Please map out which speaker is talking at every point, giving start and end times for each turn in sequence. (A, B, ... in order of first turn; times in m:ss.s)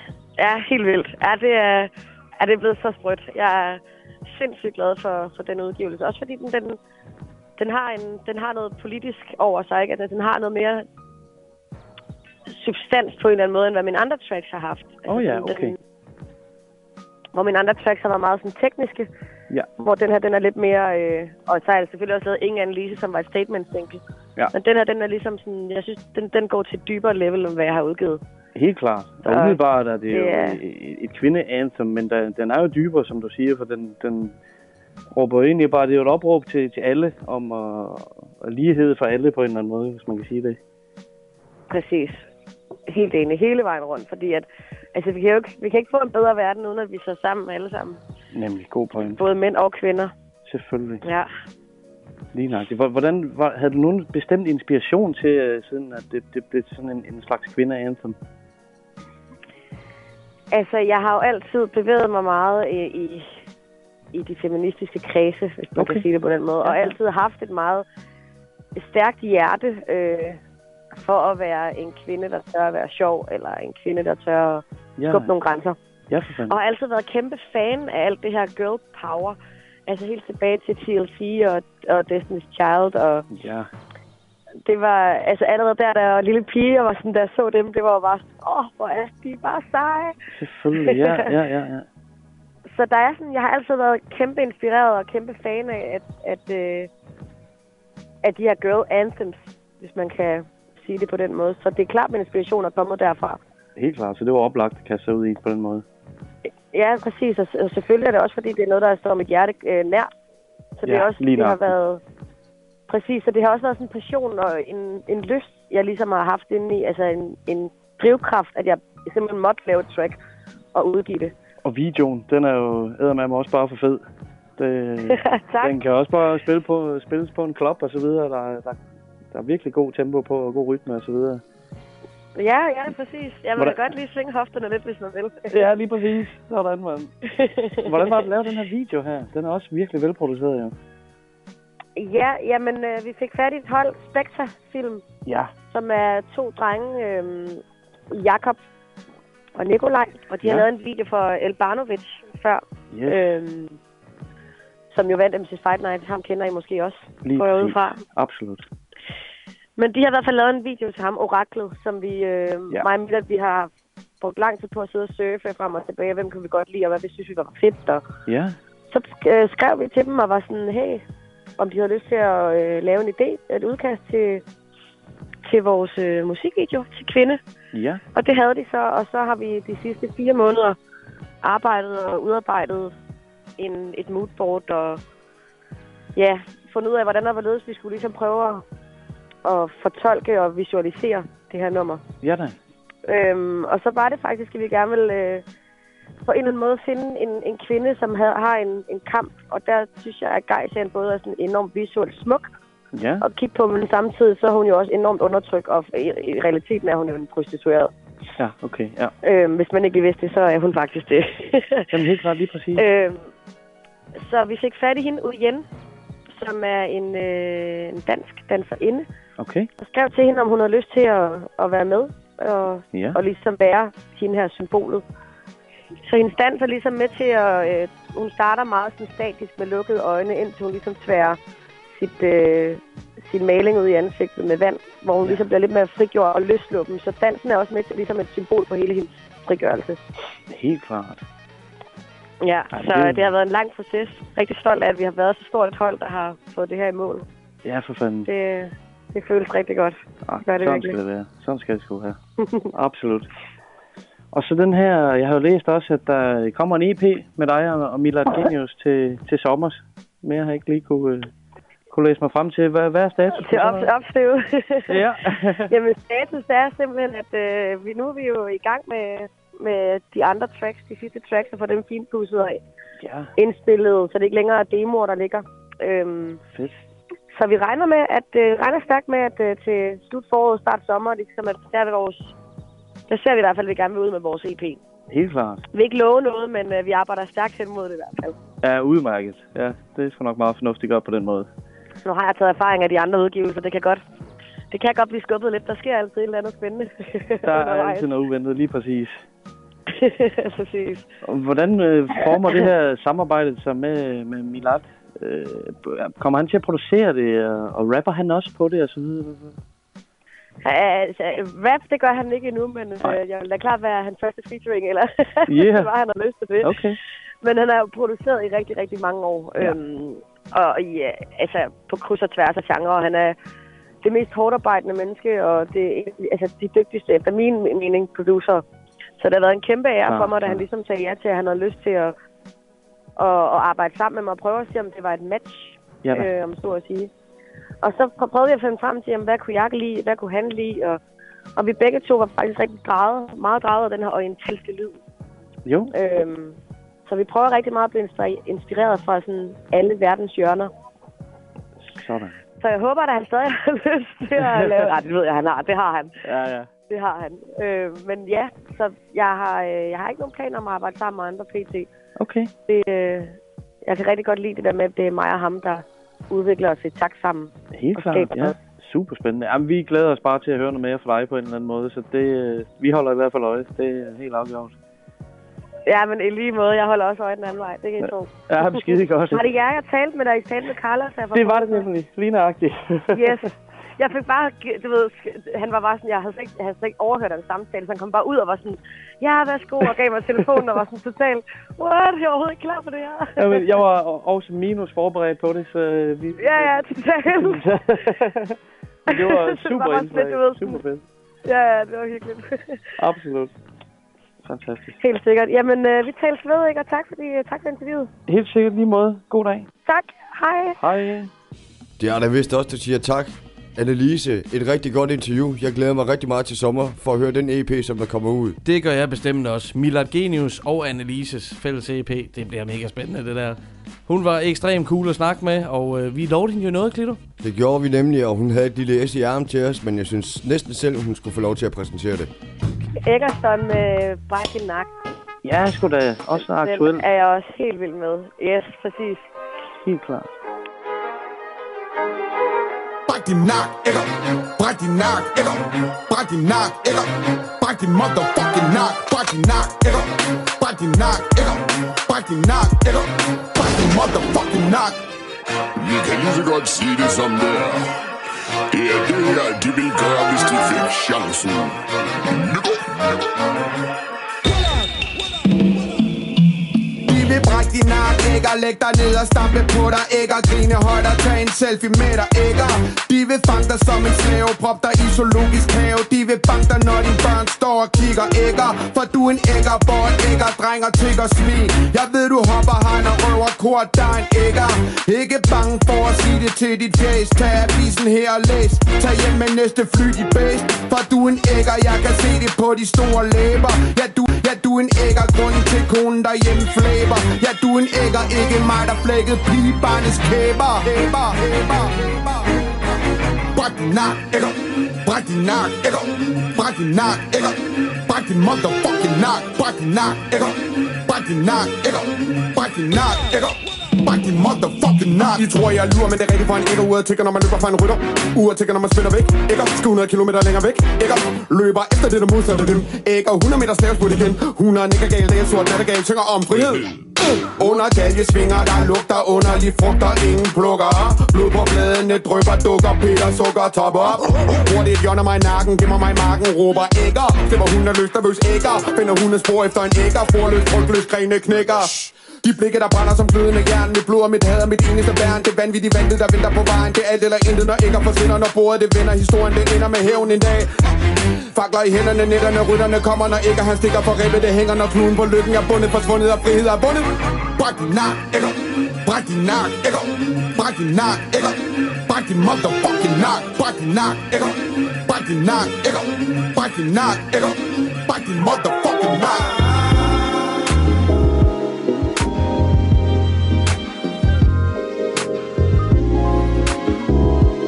0:00.4-0:06.8 A
0:07.6-0:10.9 A
0:12.5-0:15.8 A
0:15.1-0:15.8 B
0:17.4-0:19.1 A
0:19.8-0:24.0 A
0:24.5-0:28.2 A
0:28.6-0:34.3 B
0:29.3-0:30.6 A
0:35.1-0:40.6 B
0:41.7-0:42.2 A
0:42.9-0:48.0 A
0:48.3-0:49.2 B
0:49.0-0:50.1 A
0:50.5-0:51.0 B
0:51.0-0:51.3 A
0:52.3-0:58.2 B
1:00.5-1:03.3 A
1:04.1-1:07.8 A
1:05.8-1:06.0 B
1:06.6-1:07.0 B
1:08.8-1:10.4 A
1:10.9-1:15.8 A
1:15.0-1:15.4 B
1:16.1-1:16.6 B
1:16.5-1:23.3 A
1:23.3-1:23.7 B
1:24.6-1:30.2 A
1:30.4-1:31.9 B
1:30.8-1:31.3 A
1:32.7-1:36.9 A
1:38.2-1:43.4 A
1:43.8-1:45.8 B
1:46.7-1:50.1 A
1:50.8-1:52.0 A
1:50.8-1:51.8 B
1:52.9-2:00.2 A
2:00.7-2:01.3 A
2:01.6-2:04.0 B
2:04.6-2:08.8 B
2:05.1-2:05.8 A
2:09.3-2:11.4 B
2:12.4-2:15.6 A
2:13.6-2:13.9 B
2:15.5-2:17.1 B
2:17.4-2:18.2 A
2:17.9-2:20.7 B
2:22.0-2:25.0 A
2:25.3-2:25.5 B
2:25.7-2:28.6 A
2:29.6-2:33.8 A
2:30.4-2:30.7 B
2:32.9-2:33.4 B
2:34.9-2:38.0 A
2:37.2-2:38.7 B
2:39.8-2:48.0 A
2:48.3-2:48.6 B
2:48.9-2:51.0 A
2:51.6-2:54.4 A
2:55.4-2:57.4 A
2:57.7-2:58.0 B
2:58.1-3:00.8 A
3:01.4-3:03.0 A
3:03.6-3:05.0 A
3:06.2-3:08.6 A
3:09.4-3:12.0 A
3:12.2-3:12.6 B
3:13.1-3:15.4 A
3:16.3-3:22.5 A
3:22.9-3:23.3 B
3:23.2-3:27.9 A
3:28.4-3:29.1 B
3:29.2-3:32.0 A
3:31.9-3:32.9 B
3:32.8-3:33.2 A
3:34.2-3:35.6 A
3:36.3-3:39.1 A
3:39.4-3:39.7 B
3:39.8-3:45.0 A
3:42.9-3:43.2 B
3:46.0-3:51.4 A
3:51.9-4:00.0 A
4:00.5-4:01.2 B
4:02.4-4:07.3 A
4:02.7-4:03.3 B
4:07.6-4:08.3 B
4:08.3-4:11.0 A
4:10.3-4:12.2 B
4:12.4-4:12.7 A
4:12.8-4:13.3 B
4:14.3-4:21.3 B
4:21.9-4:23.9 B
4:23.3-4:25.0 A
4:24.9-4:25.7 B
4:25.7-4:32.6 A
4:33.0-4:33.3 B
4:33.4-4:36.4 A
4:36.6-4:36.9 B
4:37.3-4:42.3 A
4:43.1-4:44.8 A
4:45.1-4:45.6 B
4:45.7-4:48.4 A
4:48.6-4:51.5 B
4:52.0-4:54.0 A
4:54.7-4:58.1 A
4:57.5-4:59.2 B
4:59.9-5:01.1 A
5:01.2-5:09.6 B
5:10.6-5:16.8 A
5:15.5-5:15.9 B
5:16.6-5:17.0 B
5:17.4-5:23.4 A
5:24.0-5:28.6 A
5:29.2-5:32.2 A
5:30.1-5:30.7 B
5:33.2-5:37.1 A
5:36.0-5:36.3 B
5:37.8-5:41.0 A
5:41.6-5:45.0 A
5:45.7-5:45.9 B
5:45.9-5:50.7 A
5:51.9-5:52.4 B
5:52.6-5:56.1 A
5:54.4-5:54.9 B
5:56.3-5:56.7 B
5:56.9-6:01.9 A
6:02.2-6:02.5 B
6:02.7-6:08.6 A
6:07.7-6:14.7 B
6:15.9-6:21.9 A
6:18.0-6:19.5 B
6:21.3-6:23.4 B
6:23.1-6:33.6 A
6:33.4-6:38.6 B
6:36.4-6:37.6 A
6:39.1-6:40.8 A
6:39.1-6:41.0 B
6:41.4-6:42.8 A
6:43.0-6:43.6 B
6:44.4-6:45.0 B
6:45.0-6:48.1 A
6:48.3-6:49.7 B
6:49.9-6:50.8 A
6:50.8-6:51.3 B
6:52.0-6:58.6 C
6:58.6-7:07.2 D
7:07.4-7:12.3 C
7:13.0-7:14.9 A
7:15.4-7:17.0 B
7:16.4-7:19.3 A
7:19.8-7:20.3 B
7:23.1-7:35.0 E
7:35.8-7:37.9 F
7:38.7-7:41.8 F
7:42.5-7:42.9 F
7:47.0-8:22.5 E
8:23.5-8:46.9 E
8:47.4-9:10.7 E
9:11.5-9:29.7 E